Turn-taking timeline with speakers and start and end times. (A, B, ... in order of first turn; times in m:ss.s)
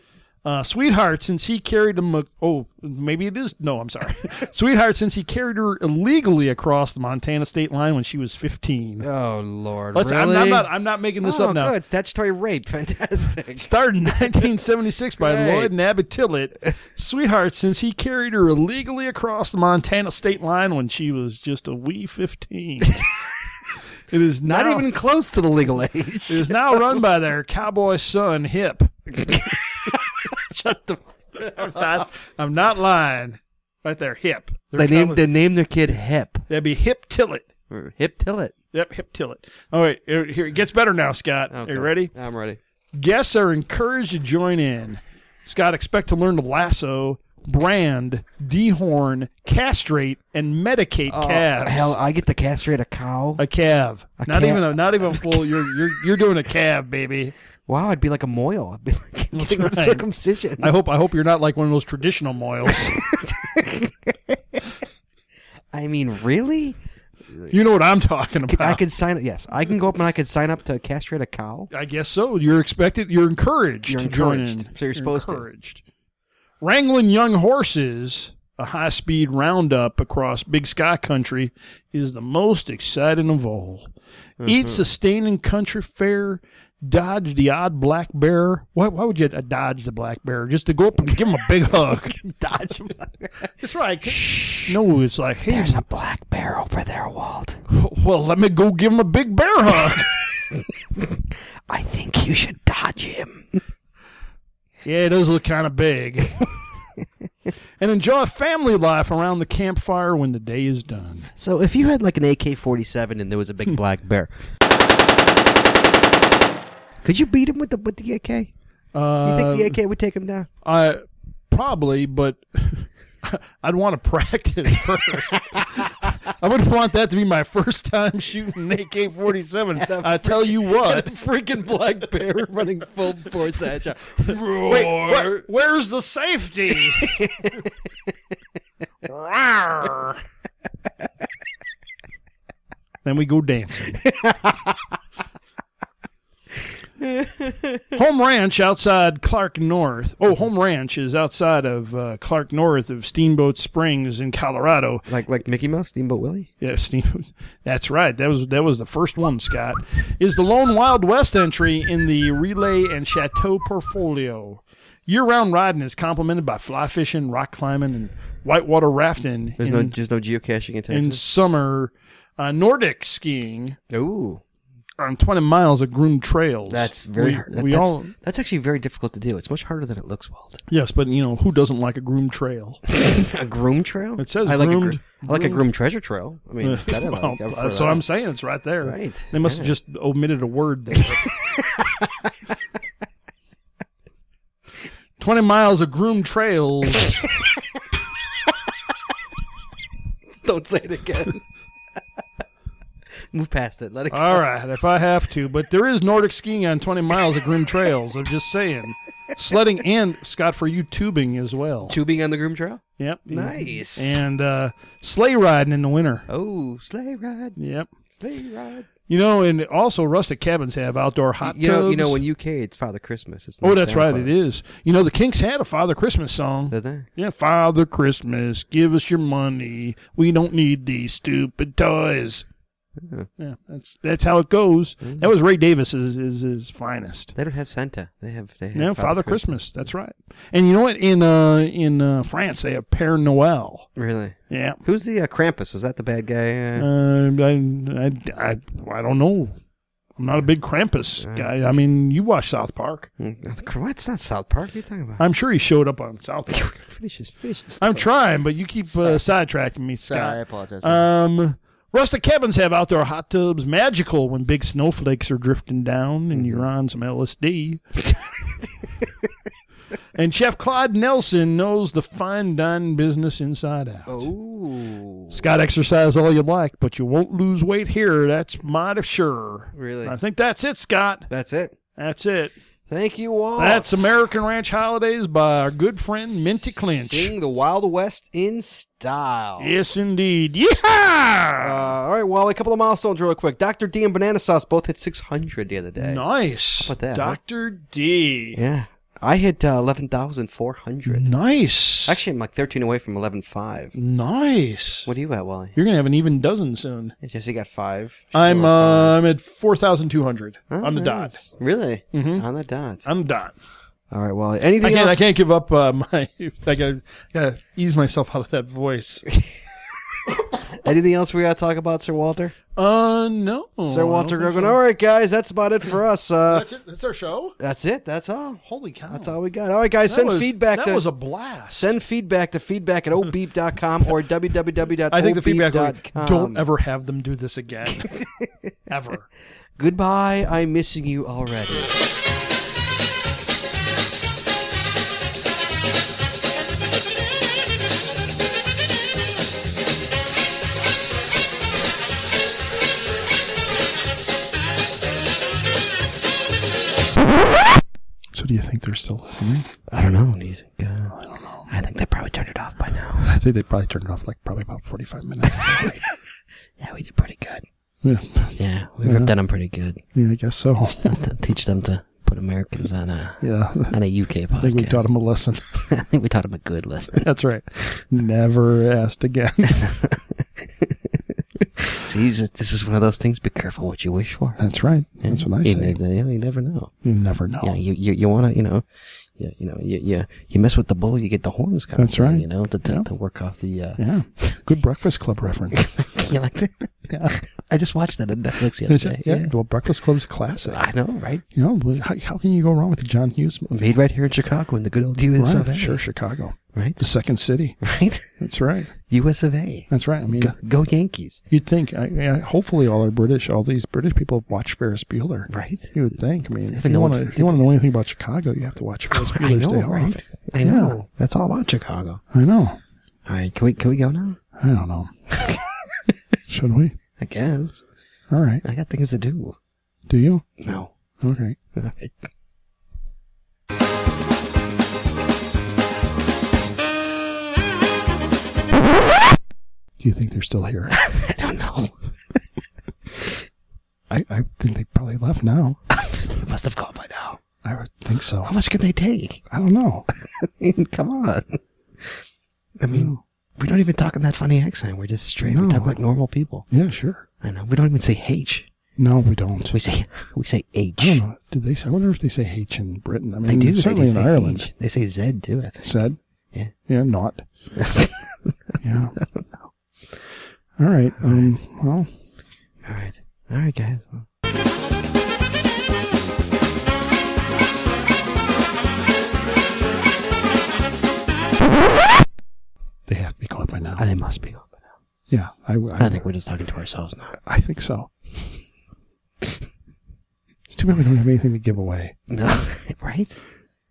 0:00.4-0:09.1 A
0:09.0-0:10.7 B
0:09.9-0:11.7 A
0:11.2-0:14.4 B
0:13.6-0:23.1 A
0:15.2-0:15.7 B
0:24.1-0:24.9 A
0:24.4-0:26.8 B
0:26.3-0:28.9 A
0:29.1-0:32.0 B
0:31.5-0:35.2 A
0:34.7-0:36.4 B
0:36.5-0:37.5 A
0:37.7-0:38.5 B
0:38.7-0:42.1 A
0:41.5-0:42.6 B
0:42.9-0:52.0 A
0:51.1-0:53.4 B
0:53.4-0:57.3 A
0:54.2-0:55.9 B
0:57.7-1:00.7 B
0:59.3-1:00.1 A
1:00.6-1:03.0 A
1:02.7-1:04.6 B
1:05.7-1:06.8 B
1:07.5-1:08.8 A
1:08.5-1:11.7 B
1:11.7-1:15.8 A
1:13.8-1:15.4 B
1:16.6-1:23.9 A
1:24.4-1:24.8 B
1:24.4-1:32.2 A
1:32.0-1:33.5 B
1:33.6-1:35.8 A
1:34.0-1:34.8 B
1:35.5-1:37.6 B
1:37.7-1:40.1 A
1:41.7-1:43.6 B
1:44.8-1:46.4 A
1:47.8-1:51.3 A
1:51.4-1:54.3 B
1:57.0-1:58.5 B
1:58.9-1:59.8 A
1:59.2-2:00.5 B
2:00.6-2:11.2 A
2:09.8-2:15.4 B
2:14.6-2:17.1 A
2:16.9-2:17.7 B
2:19.0-2:20.2 A
2:23.0-2:24.0 A
2:24.0-2:24.7 B
2:27.0-2:27.8 B
2:27.9-2:35.0 A
2:35.1-2:36.5 B
2:36.6-2:50.0 A
2:49.6-2:51.2 B
2:50.9-2:53.8 A
2:53.9-2:54.4 B
2:55.0-2:58.1 A
2:56.7-3:00.6 B
3:00.7-3:02.8 A
3:02.9-3:08.0 B
3:04.2-3:05.6 A
3:06.6-3:11.3 A
3:08.8-3:09.7 B
3:11.0-3:12.1 B
3:15.2-3:17.2 A
3:20.3-3:21.4 B
3:23.3-3:24.4 B
3:24.1-3:32.0 A
3:31.8-3:34.2 B
3:33.0-3:36.2 A
3:36.3-3:37.6 B
3:37.6-3:37.9 A
3:38.2-3:38.9 B
3:39.1-3:42.2 A
3:41.4-3:44.3 B
3:43.6-3:52.4 A
3:46.7-3:47.1 B
3:53.0-3:53.3 B
3:53.4-3:57.3 A
3:57.4-3:59.6 B
3:58.7-4:03.9 A
4:04.0-4:06.9 B
4:04.5-4:04.8 A
4:06.8-4:09.5 A
4:10.2-4:13.1 A
4:11.2-4:11.5 B
4:13.2-4:15.2 B
4:15.2-4:16.8 A
4:16.5-4:18.1 B
4:17.8-4:27.8 A
4:18.9-4:19.2 B
4:20.0-4:21.1 B
4:26.3-4:26.7 B
4:30.2-4:34.3 A
4:34.1-4:35.4 B
4:35.3-4:41.3 A
4:39.7-4:40.2 B
4:41.3-4:41.8 B
4:42.0-4:42.5 A
4:42.9-4:44.0 B
4:43.6-4:47.3 A
4:46.3-4:49.7 B
4:49.6-4:51.9 A
4:51.6-4:56.2 B
4:56.0-4:58.6 A
4:56.8-4:57.4 B
4:58.5-5:01.3 B
5:01.0-5:02.2 A
5:02.0-5:03.9 B
5:03.9-5:05.1 A
5:05.0-5:05.8 B
5:05.7-5:07.2 A
5:07.2-5:09.2 B
5:08.3-5:11.4 A
5:10.7-5:13.0 B
5:12.1-5:12.4 A
5:13.0-5:13.5 A
5:14.1-5:15.2 B
5:14.8-5:19.3 A
5:20.8-5:22.6 B
5:22.8-5:24.8 A
5:23.8-5:26.7 B
5:26.5-5:27.6 A
5:27.6-5:31.0 B
5:28.6-5:29.4 A
5:30.0-5:31.9 A
5:31.7-5:36.6 B
5:35.1-5:38.1 A
5:38.0-5:38.7 B
5:38.9-5:39.3 A
5:39.8-5:42.0 B
5:58.3-5:59.7 A
5:59.9-6:01.1 B
6:01.1-6:01.7 A
6:01.7-6:03.3 B
6:03.2-6:05.9 A
6:05.6-6:05.9 B
6:06.8-6:07.6 B
6:08.0-6:09.3 A
6:08.6-6:10.0 B
6:10.1-6:11.2 A
6:11.0-6:15.1 B
6:13.4-6:14.0 A
6:14.6-6:15.8 A
6:15.8-6:17.3 B
6:17.2-6:19.9 A
6:19.8-6:24.6 B
6:24.6-6:26.0 A
6:25.2-6:26.9 B
6:27.0-6:27.7 A
6:27.6-6:34.6 B
6:32.0-6:33.1 A
6:34.0-6:35.9 A
6:35.8-6:39.5 B
6:37.1-6:37.4 A
6:38.9-6:40.8 A
6:40.6-6:41.4 B
6:41.5-6:43.9 A
6:43.7-6:46.0 B
6:45.4-6:47.8 A
6:46.7-6:47.0 B
6:47.8-6:48.4 B
6:48.4-6:48.9 A
6:49.1-6:51.4 B
6:49.9-6:50.5 A
6:51.5-7:01.0 A
6:55.5-6:55.9 B
6:56.7-6:57.7 B
6:59.1-7:02.2 B
7:02.3-7:02.8 A
7:03.2-7:04.4 B
7:04.6-7:05.1 A
7:05.4-7:06.1 B
7:06.5-7:07.0 A
7:07.2-7:07.8 B
7:08.3-7:08.6 A
7:08.6-7:09.6 B
7:10.1-7:10.4 A
7:10.6-7:10.9 B
7:11.2-7:11.6 A
7:11.8-7:12.1 B
7:20.0-7:20.9 A
7:20.9-7:21.9 B
7:24.1-7:25.8 A
7:25.9-7:27.4 B
7:27.6-7:28.5 A
7:28.4-7:29.4 B
7:29.5-7:30.1 A
7:30.2-7:32.2 B
7:32.8-7:36.6 B
7:32.9-7:33.2 A
7:35.5-7:36.0 A
7:36.7-7:37.2 A
7:37.4-7:38.7 B
7:39.0-7:39.8 A
7:39.7-7:41.2 B
7:41.0-7:44.7 A
7:43.4-7:46.0 B
7:45.8-7:46.2 A
7:46.9-7:47.4 A
7:47.8-7:48.5 B
7:48.8-7:49.2 A
7:49.2-7:49.6 B
7:50.8-7:52.1 A
7:51.2-7:51.5 B
7:52.8-7:54.3 B
8:03.1-8:04.0 A
8:04.0-8:04.8 B
8:05.3-8:06.2 A
8:06.0-8:07.3 B
8:07.4-8:08.1 A
8:10.7-8:12.1 A
8:12.3-8:13.4 B